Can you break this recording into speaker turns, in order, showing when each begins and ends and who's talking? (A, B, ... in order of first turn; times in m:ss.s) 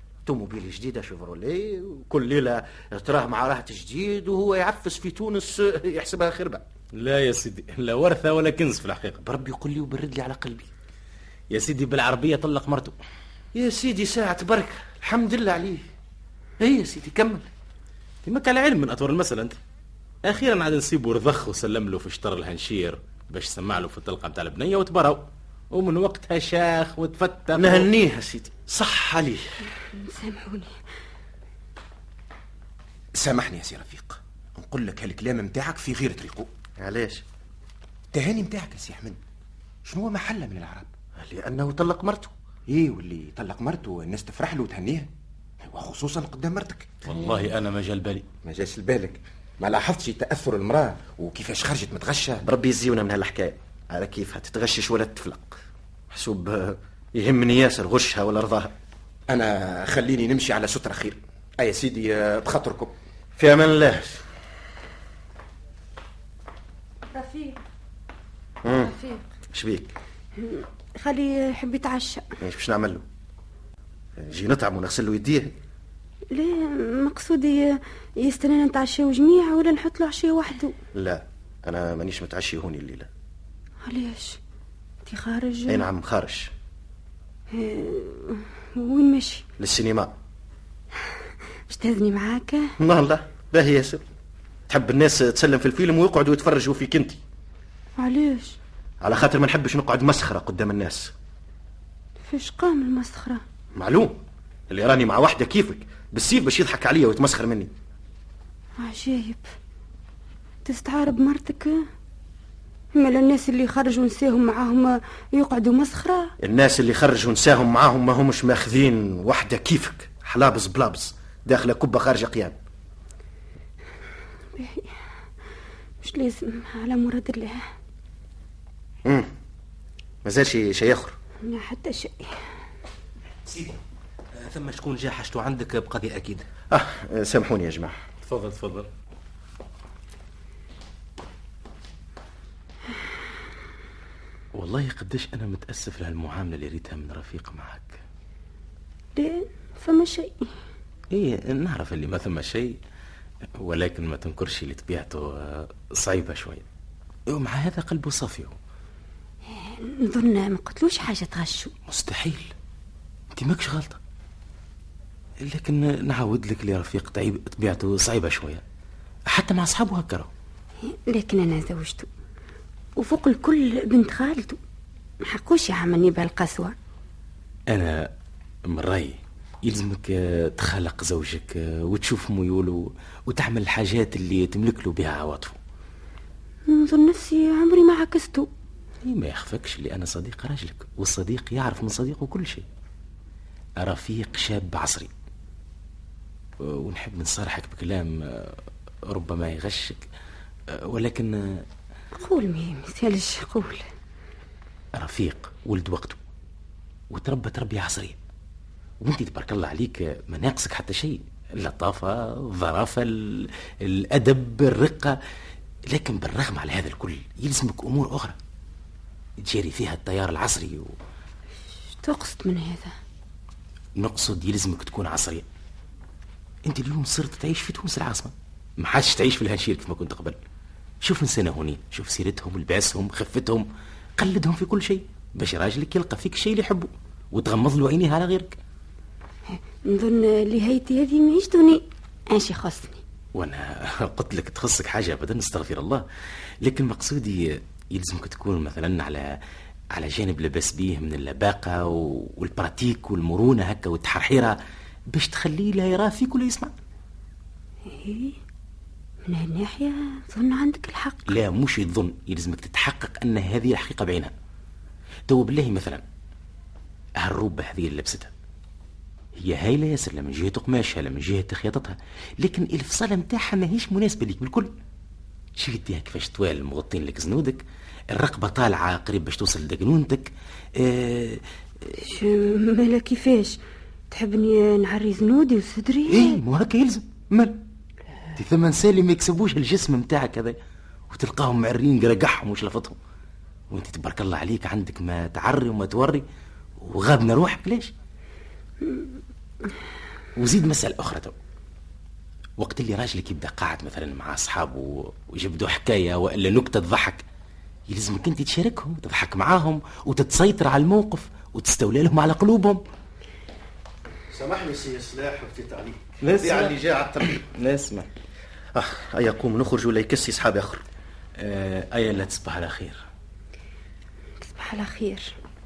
0:00.2-0:06.6 A
0:06.9-0:09.2 B
0:09.2-0:10.7 A
0:11.5-0:12.9 B
0:13.5-0:15.8 A
0:16.6-0:17.5 A
0:18.2-0:19.6 B
0:20.2-0:27.9 B
0:27.5-0:29.7 A
0:29.9-0:30.8 C
0:33.1-0:36.5 D
0:36.8-0:37.2 A
0:38.1-0:39.2 D
0:39.8-0:40.9 D
0:41.2-0:42.3 A
0:42.7-0:45.1 D
0:45.6-0:47.3 D
0:47.1-0:48.2 B
0:48.4-0:52.4 D
0:52.4-0:58.7 A
0:59.3-1:02.9 D
1:03.4-1:04.2 A
1:07.1-1:07.6 C
1:08.6-1:08.9 A
1:08.7-1:09.2 C
1:09.5-1:09.9 A
1:10.4-1:12.3 C
1:12.4-1:13.0 A
1:14.2-1:15.5 A
1:16.3-1:20.7 C
1:20.9-1:23.1 A
1:23.8-1:24.4 C
1:25.0-1:25.9 C
1:25.7-1:26.5 A
1:27.5-1:29.4 C
1:29.6-1:30.1 A
1:31.0-1:32.7 C
1:32.8-1:34.0 A
1:34.7-1:37.2 A
1:38.0-1:38.6 C
1:39.0-1:41.1 A
1:42.2-1:43.4 C
1:43.7-1:44.2 A
1:44.7-1:47.7 A
1:48.8-1:49.5 C
1:50.6-1:51.8 C
1:52.9-1:56.3 C
1:56.4-2:02.6 A
2:04.5-2:05.0 C
2:06.0-2:07.6 C
2:09.0-2:09.3 A
2:10.2-2:11.2 A
2:11.4-2:12.4 C
2:13.5-2:13.8 E
2:14.4-2:16.4 E
2:16.7-2:18.0 A
2:18.2-2:18.9 B
2:24.5-2:28.0 B
2:29.2-2:30.5 C
2:31.1-2:32.8 B
2:33.6-2:36.6 B
2:37.3-2:38.5 B
2:39.5-2:41.7 C
2:41.9-2:42.5 B
2:43.3-2:44.0 B
2:45.4-2:48.6 B
2:49.3-2:50.3 B
2:50.9-2:52.1 C
2:53.0-2:54.6 C
2:55.2-2:56.7 C
2:57.7-2:58.1 B
2:58.7-3:05.6 B
3:06.7-3:08.5 C
3:09.0-3:12.6 B
3:13.8-3:15.1 B
3:16.6-3:20.0 B
3:20.7-3:21.6 B
3:22.1-3:23.8 C
3:24.9-3:26.2 B
3:27.1-3:28.2 B
3:29.0-3:35.2 B
3:35.9-3:38.4 B
3:39.4-3:40.9 B
3:41.9-3:42.9 C
3:44.0-3:45.4 B
3:46.6-3:50.4 B
3:51.0-3:53.6 B
3:54.2-3:58.6 B
3:59.5-4:03.0 C
4:03.3-4:06.0 B
4:06.6-4:09.4 B
4:09.9-4:14.6 B
4:15.1-4:16.7 B
4:17.8-4:18.4 C
4:19.2-4:21.3 C
4:21.3-4:24.3 B
4:25.3-4:26.0 B
4:27.2-4:28.3 B
4:29.4-4:34.7 B
4:35.6-4:41.9 B
4:42.0-4:46.4 C
4:46.1-4:47.6 B
4:48.4-4:50.6 B
4:51.1-4:53.0 B
4:53.7-4:56.2 B
4:56.8-4:57.9 B
4:58.8-4:59.7 C
5:00.4-5:01.3 B
5:02.6-5:07.2 B
5:07.9-5:12.8 B
5:14.3-5:17.4 A
5:16.2-5:18.1 B
5:18.7-5:20.8 A
5:21.4-5:23.0 B
5:24.4-5:25.3 C